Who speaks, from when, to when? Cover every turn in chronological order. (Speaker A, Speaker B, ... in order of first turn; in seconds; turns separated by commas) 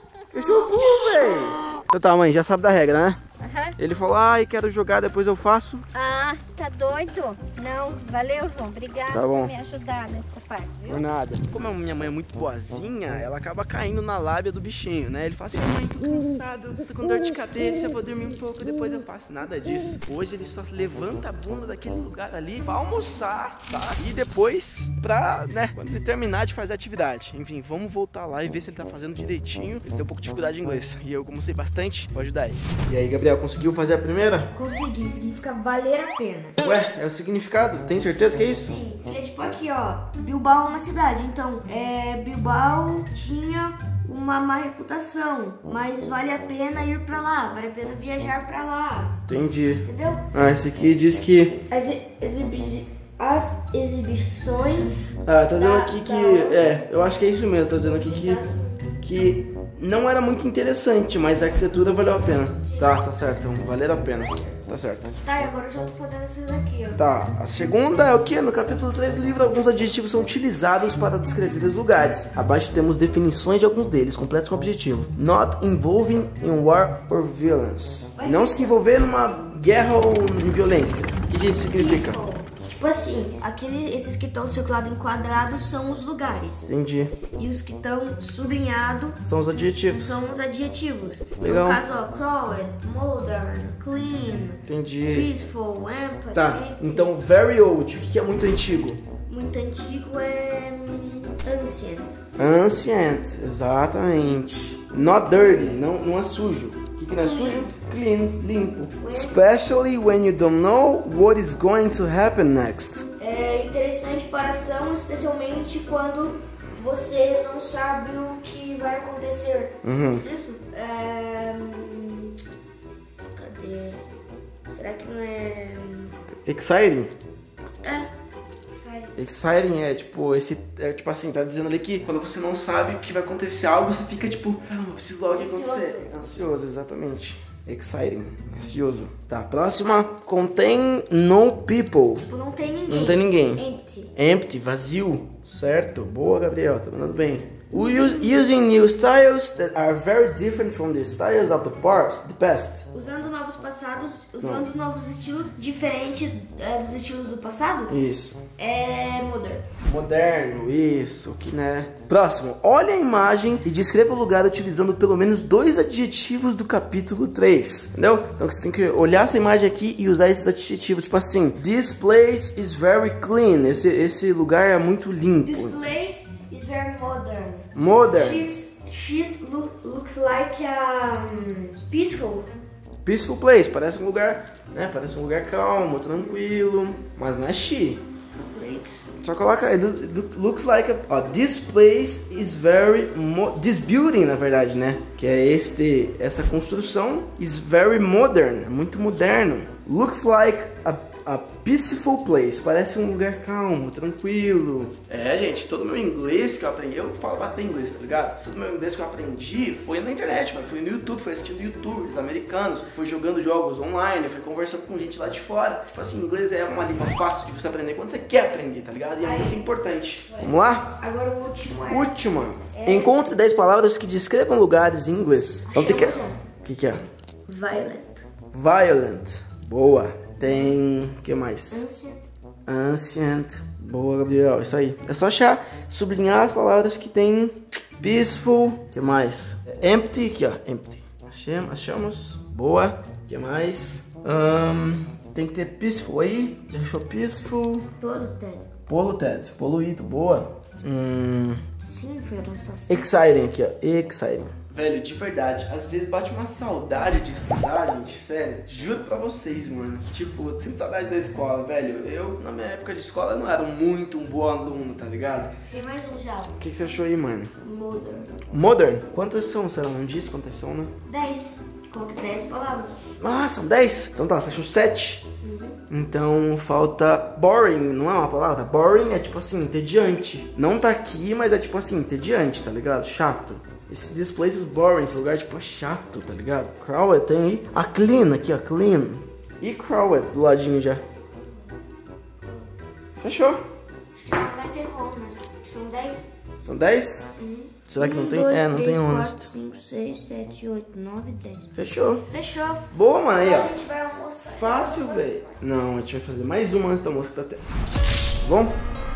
Speaker A: 0.3-3.2, Speaker B: 3.4-3.8, Speaker A: 3.8-5.8, Speaker B: 5.9-11.0, Speaker A: 9.1-9.5, Speaker A: 10.9-34.5, Speaker C: 34.5-36.6, Speaker A: 36.6-38.7, Speaker C: 38.5-49.2, Speaker A: 49.3-51.6, Speaker C: 49.8-50.3, Speaker C: 51.7-56.8, Speaker A: 55.2-58.4, Speaker C: 57.8-59.0, Speaker A: 59.0-65.2, Speaker C: 62.6-63.1, Speaker C: 65.2-67.0, Speaker A: 67.0-82.2, Speaker C: 78.2-78.8, Speaker C: 81.7-86.7, Speaker A: 86.7-87.2, Speaker C: 87.3-97.1, Speaker A: 89.2-90.2, Speaker A: 91.4-91.8, Speaker A: 94.7-95.3, Speaker A: 96.3-99.0, Speaker C: 99.3-102.2, Speaker A: 102.4-113.1, Speaker C: 105.3-105.8, Speaker C: 107.2-107.7, Speaker C: 109.0-110.0, Speaker C: 113.2-122.4, Speaker A: 119.8-120.2, Speaker C: 123.3-124.0, Speaker C: 124.7-126.2, Speaker A: 126.5-127.1, Speaker C: 127.8-128.1, Speaker C: 128.7-129.2, Speaker A: 129.2-142.3, Speaker C: 135.3-136.2, Speaker C: 142.2-144.1, Speaker A: 142.9-143.6, Speaker A: 144.2-152.9, Speaker C: 147.7-148.5, Speaker C: 152.9-157.9, Speaker A: 154.4-154.7, Speaker A: 157.9-158.4, Speaker C: 158.6-159.7, Speaker A: 159.8-175.8, Speaker C: 175.4-182.5, Speaker A: 177.8-178.5, Speaker A: 183.0-188.0, Speaker C: 188.3-189.1, Speaker A: 189.2-220.9, Speaker C: 219.2-219.7, Speaker C: 220.3-223.2, Speaker A: 221.9-227.0, Speaker C: 225.7-226.4, Speaker C: 227.5-228.2, Speaker A: 228.5-231.8, Speaker C: 231.7-232.3, Speaker A: 232.7-247.9, Speaker C: 248.0-248.7, Speaker A: 248.9-251.6, Speaker C: 251.8-253.2, Speaker A: 252.9-265.6, Speaker C: 265.6-266.6, Speaker A: 266.6-267.5, Speaker C: 267.6-268.3, Speaker A: 268.5-270.9, Speaker C: 271.1-273.0, Speaker A: 273.2-275.2, Speaker C: 275.4-275.8, Speaker A: 275.9-291.0, Speaker A: 293.2-293.6, Speaker C: 294.2-296.3, Speaker A: 296.6-297.3, Speaker C: 297.4-301.7, Speaker A: 297.9-299.5, Speaker A: 301.8-302.3, Speaker C: 302.3-305.6, Speaker A: 302.9-303.8, Speaker A: 304.5-307.6, Speaker A: 308.4-308.8